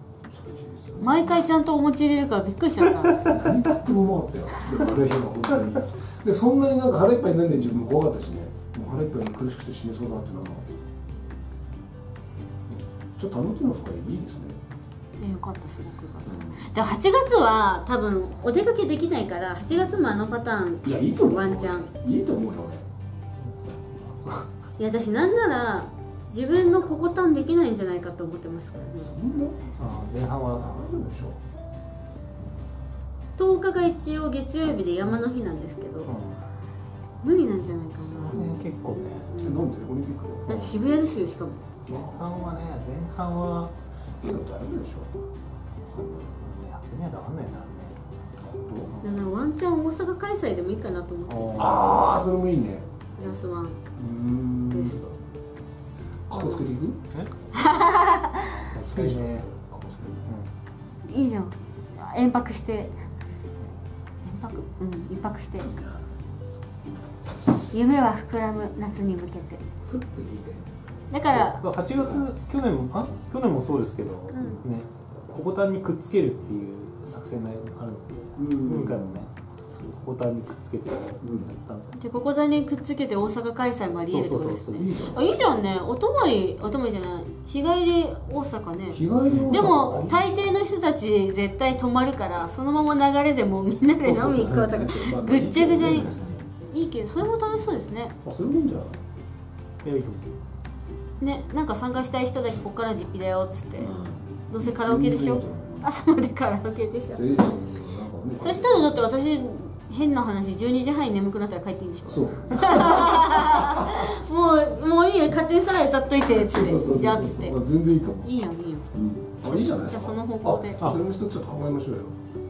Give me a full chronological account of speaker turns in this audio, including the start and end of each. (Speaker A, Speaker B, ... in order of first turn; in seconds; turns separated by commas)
Speaker A: 0.3-1.4, Speaker B: 1.0-3.3, Speaker A: 3.2-10.7, Speaker A: 12.7-14.6, Speaker B: 15.2-21.9, Speaker A: 16.3-16.7, Speaker A: 20.8-22.9, Speaker C: 23.4-24.5, Speaker B: 24.8-29.2, Speaker A: 28.9-31.4, Speaker C: 29.8-31.0, Speaker B: 33.4-36.1, Speaker C: 36.1-36.4, Speaker B: 37.2-38.5, Speaker C: 38.0-39.5, Speaker A: 38.3-38.7, Speaker B: 39.3-39.7, Speaker A: 39.4-40.8, Speaker B: 40.5-41.8, Speaker C: 41.9-43.7, Speaker A: 41.9-42.3, Speaker A: 44.2-45.2, Speaker C: 45.9-48.0, Speaker A: 48.4-48.9, Speaker B: 49.0-52.0, Speaker C: 51.3-52.1, Speaker A: 51.6-52.9, Speaker B: 53.2-53.8, Speaker A: 54.0-55.1, Speaker B: 54.7-55.1, Speaker A: 56.3-57.0, Speaker B: 56.3-56.7, Speaker B: 57.5-58.6, Speaker C: 58.6-59.5, Speaker A: 58.9-60.3, Speaker B: 61.0-62.9, Speaker B: 64.2-65.7, Speaker A: 65.6-66.1, Speaker B: 67.7-69.6, Speaker A: 69.9-70.7, Speaker B: 71.1-71.7, Speaker C: 71.3-81.9, Speaker A: 71.9-72.3, Speaker B: 74.3-74.6, Speaker A: 78.4-79.3, Speaker A: 81.2-81.5, Speaker B: 81.9-98.2, Speaker C: 84.1-85.0, Speaker A: 84.8-85.3, Speaker A: 88.9-90.3, Speaker C: 89.3-89.7, Speaker A: 94.0-96.5, Speaker A: 98.2-99.0, Speaker C: 99.8-100.3, Speaker B: 101.2-104.0, Speaker A: 103.8-105.9, Speaker B: 104.5-107.2, Speaker A: 107.1-109.1, Speaker B: 108.4-117.6, Speaker A: 112.1-113.9, Speaker A: 116.2-118.3, Speaker B: 118.2-118.9, Speaker A: 118.9-122.2, Speaker B: 119.5-121.0